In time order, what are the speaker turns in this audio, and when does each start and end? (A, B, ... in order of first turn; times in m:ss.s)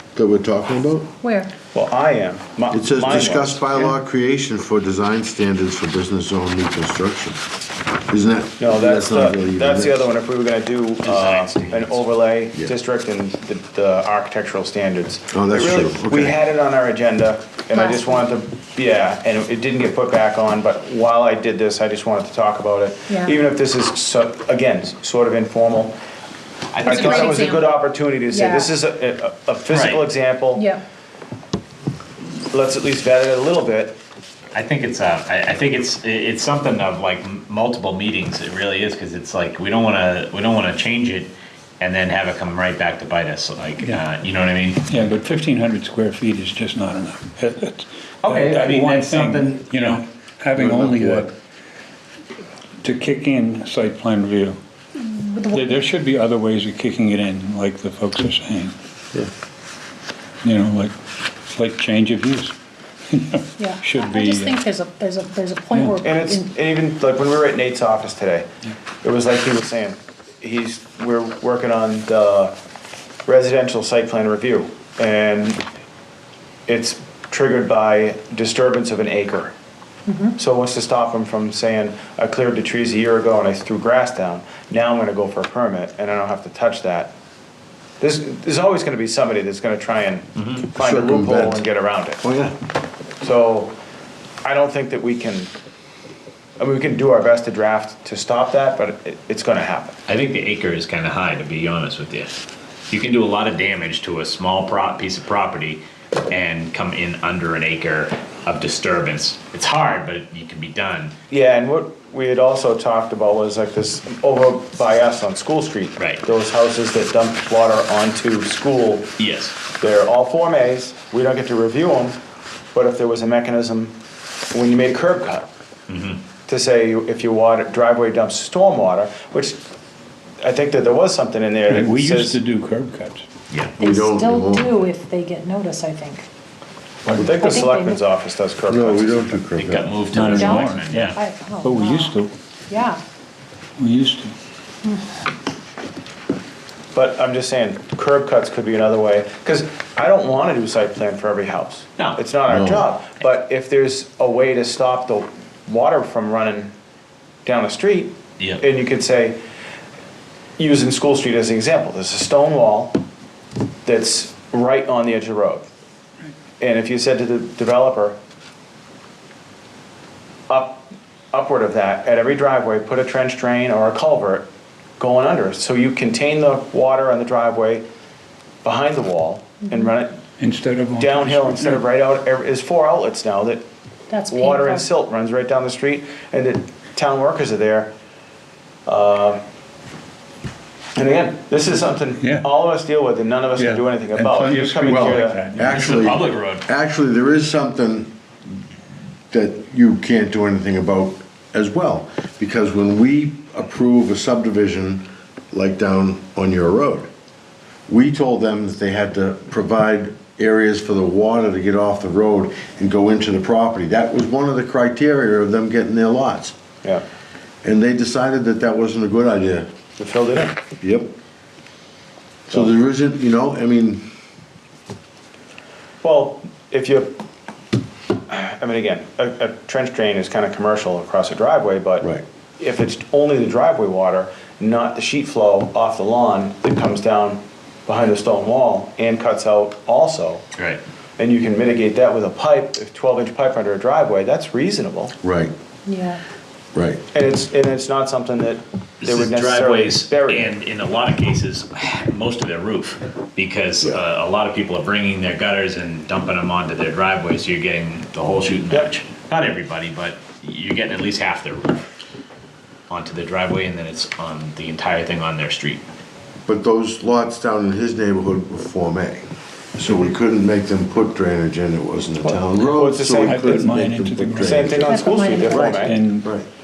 0:00.2-0:01.1 A
0:01.2-0:01.5 B
0:01.7-0:03.9 C
0:02.7-0:07.4 A
0:08.1-0:10.0 A
0:08.6-0:26.0 C
0:11.0-0:12.0 D
0:15.3-0:16.4 A
0:17.7-0:18.2 B
0:23.1-0:23.4 B
0:26.7-0:27.5 D
0:26.8-0:27.7 B
0:26.8-0:30.7 C
0:28.3-0:28.7 B
0:29.7-0:30.1 D
0:30.5-0:30.8 B
0:32.5-0:34.0 C
0:34.5-0:44.8 D
0:44.9-0:51.3 E
0:48.2-0:50.0 D
0:50.6-0:51.3 A
0:52.8-0:54.6 E
0:54.9-0:55.8 B
0:55.5-0:58.7 E
1:00.4-1:00.9 E
1:01.5-1:02.5 E
1:03.1-1:04.6 E
1:03.6-1:06.5 B
1:06.0-1:08.5 C
1:09.0-1:12.5 C
1:13.2-1:15.6 C
1:16.7-1:19.5 C
1:20.1-1:20.3 B
1:20.4-1:27.1 C
1:28.0-1:32.2 C
1:30.4-1:30.6 D
1:30.8-1:31.7 A
1:32.2-1:32.6 A
1:33.2-1:33.7 C
1:34.4-1:35.5 C
1:36.6-1:40.0 C
1:40.1-1:42.3 D
1:42.9-1:51.1 D
1:51.3-1:59.1 C
1:56.0-1:56.2 D
1:59.2-1:59.6 D
1:59.8-2:02.2 C
2:02.7-2:03.9 C
2:04.5-2:05.5 C
2:05.9-2:06.2 D
2:06.5-2:09.6 C
2:10.4-2:12.4 C
2:11.7-2:13.2 E
2:13.5-2:13.8 D
2:13.8-2:16.2 B
2:13.8-2:14.8 A
2:17.0-2:17.4 E
2:17.2-2:19.4 C
2:17.3-2:18.0 B
2:18.7-2:20.0 A
2:19.6-2:21.2 D
2:20.1-2:22.3 E
2:20.2-2:22.2 B
2:22.7-2:23.0 B
2:23.8-2:24.3 E
2:26.9-2:36.7 C
2:32.5-2:32.9 A
2:37.4-2:39.4 C
2:40.6-2:43.0 C
2:43.8-2:45.7 C
2:46.6-2:48.2 C
2:50.5-2:54.5 C
2:55.0-2:57.8 C
2:58.6-3:00.1 C
2:59.6-2:59.9 B
3:00.4-3:01.8 E
3:01.0-3:03.6 C
3:04.1-3:04.8 B
3:04.3-3:07.9 C
3:08.8-3:09.4 C
3:11.0-3:15.4 C
3:12.2-3:12.4 E
3:13.6-3:16.2 E
3:14.8-3:18.1 A
3:15.6-3:16.6 D
3:19.3-3:27.1 A
3:27.9-3:36.5 A
3:37.6-3:39.7 A
3:40.0-3:40.6 C
3:40.8-3:41.1 A
3:42.5-3:44.0 A
3:46.0-3:47.2 C
3:48.3-3:52.1 C
3:52.6-4:00.4 C
4:00.6-4:00.8 D
4:01.2-4:05.1 C
4:05.2-4:05.5 A
4:05.8-4:06.2 B
4:06.7-4:07.0 A
4:07.1-4:10.5 C
4:09.0-4:21.9 D
4:18.7-4:18.9 C
4:22.9-4:25.8 D
4:26.4-4:29.2 A
4:29.8-4:35.0 A
4:32.2-4:33.7 C
4:33.1-4:34.8 E
4:34.4-4:36.0 C
4:34.8-4:35.7 B
4:35.5-4:36.4 A
4:35.5-4:36.3 E